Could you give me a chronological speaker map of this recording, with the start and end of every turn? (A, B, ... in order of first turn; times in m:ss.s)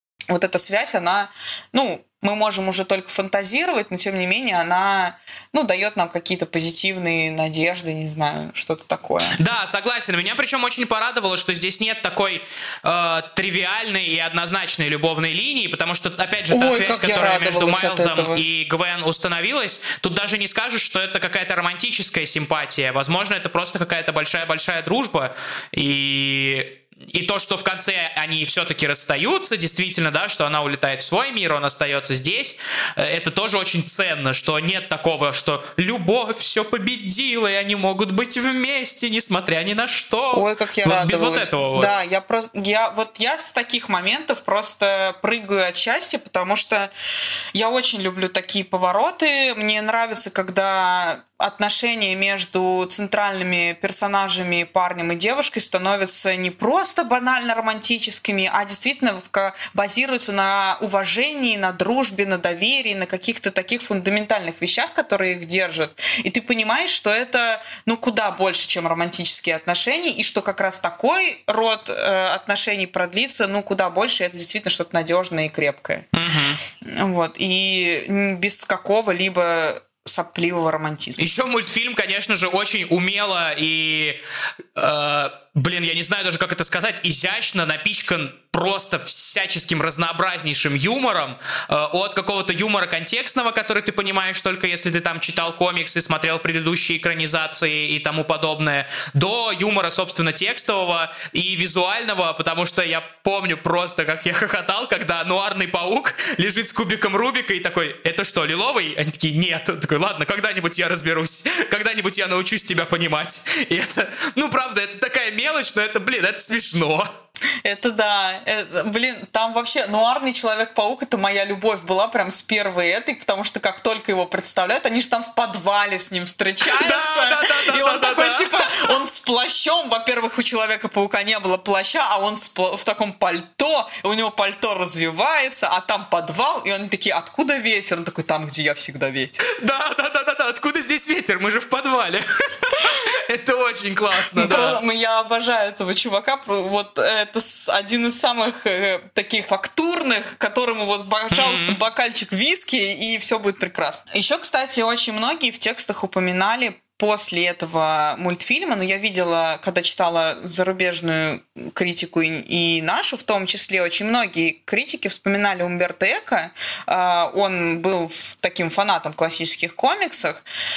0:00.3-0:09.4 A
0:09.3-0:41.9 B
0:16.5-0:18.4 A
0:40.3-0:46.9 A
0:47.5-1:16.0 A
1:16.1-1:16.6 B
1:16.8-1:21.3 A
1:21.2-1:24.2 B
1:24.7-1:57.1 B
1:57.6-2:19.4 A
2:06.6-2:09.0 B
2:19.4-2:24.8 B
2:24.3-2:50.4 A
2:31.3-2:31.8 B